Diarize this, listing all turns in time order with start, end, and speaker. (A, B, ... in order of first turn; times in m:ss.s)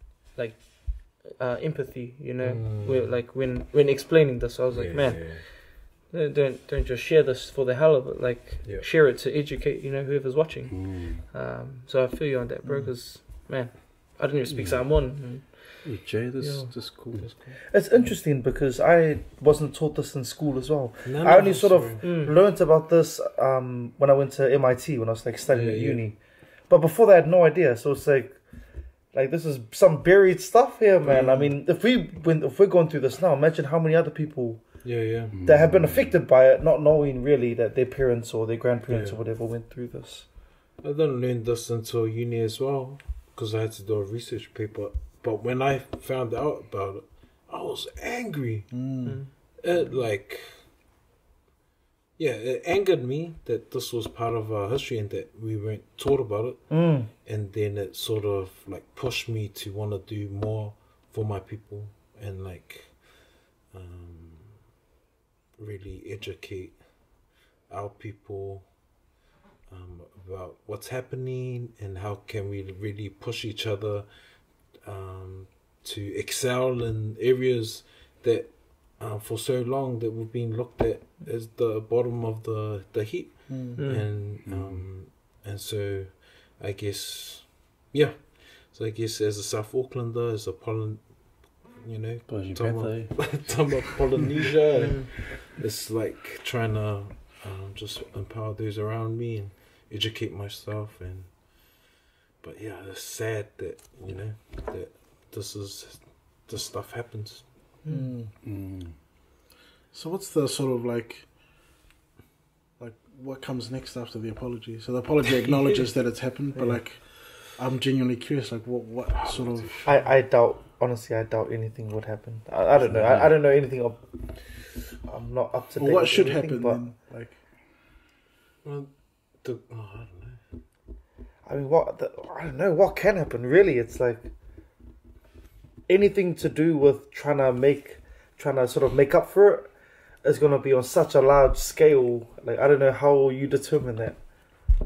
0:00.4-0:17.3 A
0:02.4-0:03.1 B
0:04.7-0:05.4 B
0:10.7-0:11.2 C
0:12.6-0:13.0 D
0:14.5-0:15.3 C
0:15.8-0:17.4 C
0:17.0-0:17.6 B
0:17.7-0:40.3 E
0:21.0-0:22.3 B
0:22.0-0:22.3 A
0:25.5-0:26.0 B
0:31.0-0:31.6 B
0:34.8-0:35.4 B
0:35.3-0:36.2 C
0:38.9-0:39.2 B
0:40.8-0:50.8 B
0:48.7-0:49.2 D
0:49.0-0:49.3 A
0:52.2-1:04.7 B
0:56.7-0:57.1 E
1:05.6-1:09.0 B
1:09.7-1:47.8 B
1:23.5-1:23.8 D
1:23.8-1:24.1 A
1:24.4-1:24.9 C
1:32.3-1:33.8 C
1:34.8-1:35.1 A
1:47.9-1:48.3 D
1:48.4-1:49.0 C
1:49.9-1:51.5 D
1:52.8-1:59.8 D
1:59.3-1:59.9 B
1:59.8-2:07.0 E
2:02.9-2:03.3 C
2:05.8-2:07.4 D
2:08.6-2:10.4 B
2:11.4-2:14.3 E
2:15.9-2:24.6 E